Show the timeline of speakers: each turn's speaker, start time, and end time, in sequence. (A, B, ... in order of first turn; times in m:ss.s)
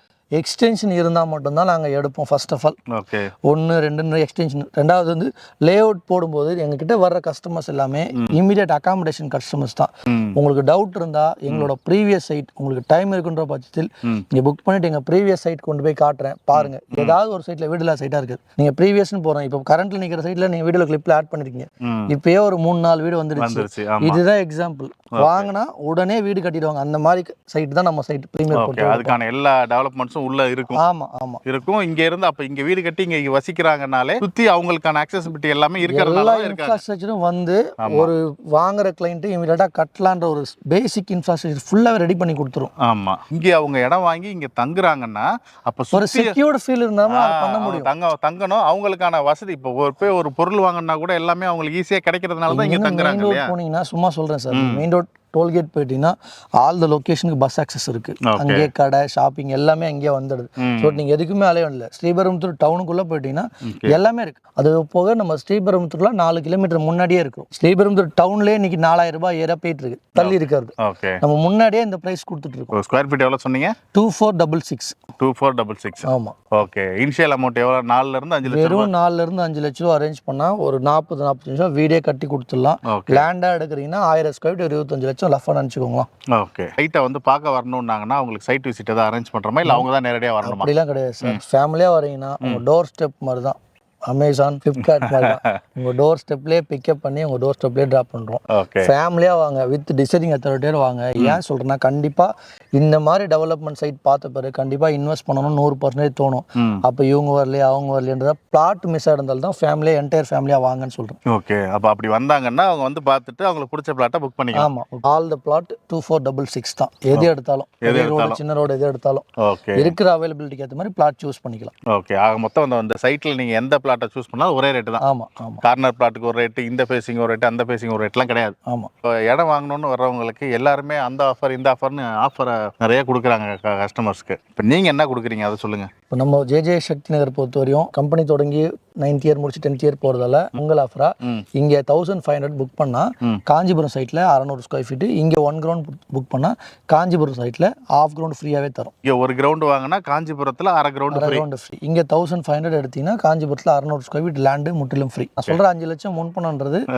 0:00.4-0:02.8 A
0:02.9-0:03.3 B
0:03.4-0:29.2 A
0:10.1-0:10.4 B
0:16.5-0:17.2 B
0:21.8-0:22.1 B
0:23.4-0:24.2 B
0:25.2-0:25.5 B
0:28.5-0:30.8 B
0:30.8-0:31.4 A
0:31.4-0:36.8 B
0:35.8-0:42.7 A
0:37.8-0:38.1 B
0:42.8-0:46.4 B
0:45.9-0:47.9 A
0:47.1-0:53.5 B
0:52.5-1:12.8 A
0:54.5-0:54.8 B
0:58.3-0:58.7 B
1:00.6-1:01.0 B
1:03.6-1:04.0 B
1:10.2-1:11.2 B
1:12.7-1:13.8 B
1:13.9-1:15.0 A
1:15.2-1:18.9 B
1:16.0-1:16.4 A
1:18.4-1:26.1 A
1:22.9-1:23.3 B
1:26.3-1:30.7 B
1:30.4-1:51.2 A
1:34.8-1:35.6 B
1:38.5-1:38.9 B
1:51.3-1:54.7 B
1:54.5-2:01.7 A
1:57.8-1:58.4 B
1:59.4-1:59.9 B
2:01.9-2:05.0 B
2:05.0-2:05.6 A
2:05.6-2:08.6 B
2:09.2-2:15.9 B
2:16.1-2:28.9 A
2:29.0-2:31.4 B
2:31.1-2:36.8 A